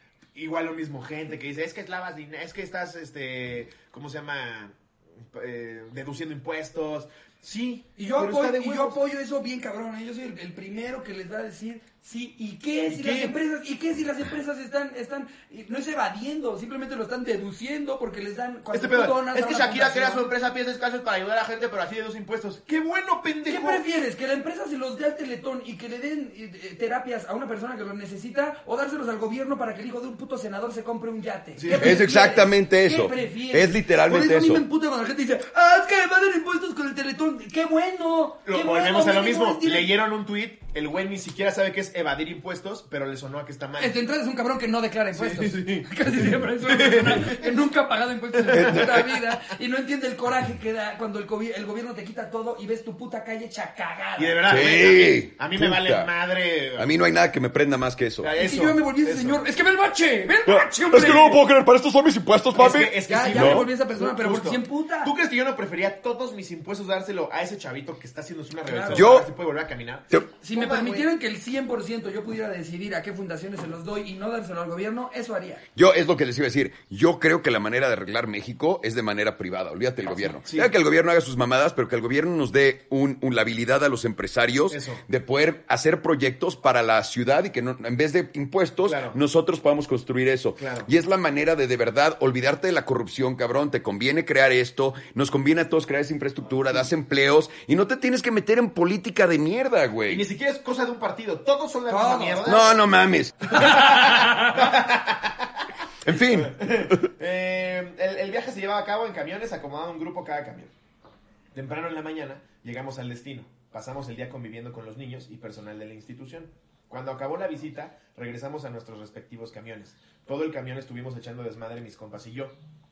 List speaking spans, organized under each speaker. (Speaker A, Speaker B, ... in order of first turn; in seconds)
Speaker A: 0.3-9.0, 12.9-13.4, 18.7-23.8, 31.6-32.0, 38.5-44.0, 45.1-46.0, 46.6-47.6, 48.3-49.0, 54.2-56.9, 58.2-59.4, 62.5-71.1, 80.5-80.7, 84.7-85.0, 88.8-89.2, 90.6-90.9, 100.1-102.8, 103.7-105.6, 106.2-110.7, 111.5-122.5
Speaker B: 8.0-20.3, 23.5-39.9, 43.8-54.6, 58.4-61.4, 62.6-65.1, 68.7-69.1, 70.4-75.7, 101.9-102.6, 103.6-104.6
Speaker C: 31.7-34.6, 48.5-49.1, 54.5-56.1, 56.8-58.3, 60.5-63.7, 68.9-69.3, 75.8-100.3, 102.4-103.9, 106.0-107.0